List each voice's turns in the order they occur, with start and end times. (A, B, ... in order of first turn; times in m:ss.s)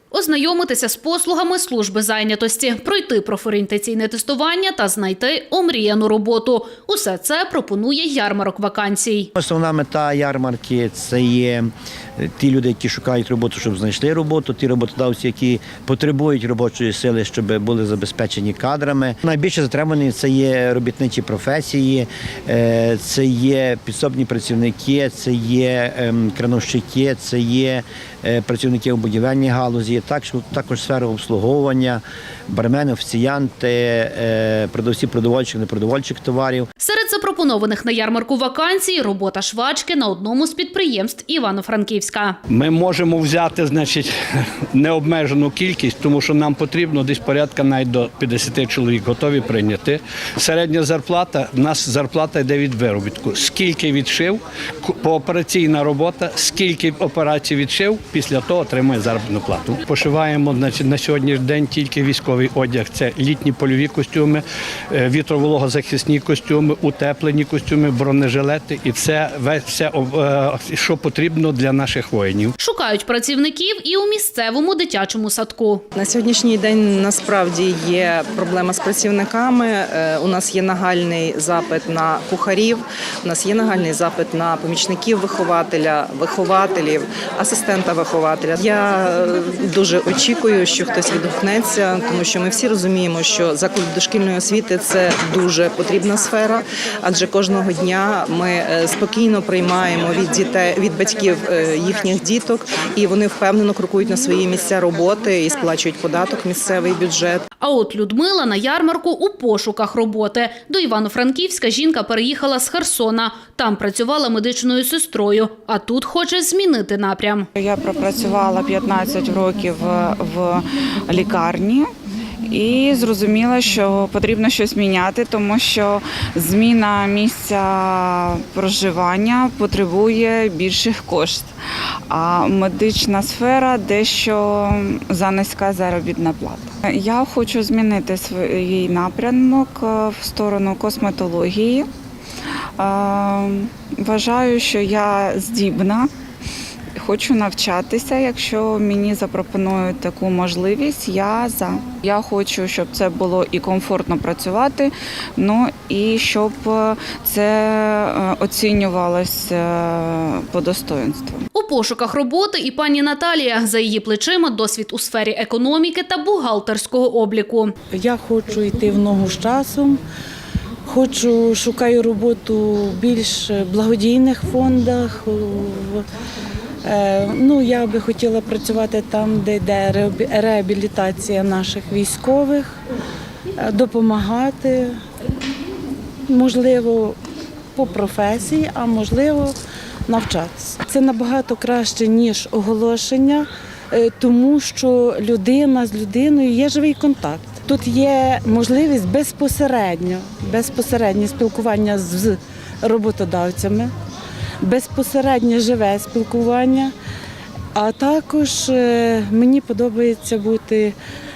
0:00.1-0:09.3 A
0:09.3-0:36.7 B
0:36.8-0:42.4 A
0:42.5-0:44.1 C
0:44.7-1:12.5 C
1:12.6-1:15.8 A
1:16.0-1:47.4 D
1:47.6-1:57.5 A
1:57.6-2:01.9 E
2:02.4-2:11.5 E
2:12.1-2:21.9 E
2:22.8-2:26.1 E
2:27.0-2:41.4 E
2:41.5-2:47.7 A
2:47.9-2:50.0 F
2:50.8-2:56.0 F
2:56.8-3:02.8 F
3:03.6-3:05.0 F
3:06.3-3:07.2 F
3:07.7-3:09.5 F
3:10.1-3:23.9 F
3:24.6-3:26.9 F
3:27.7-3:30.9 F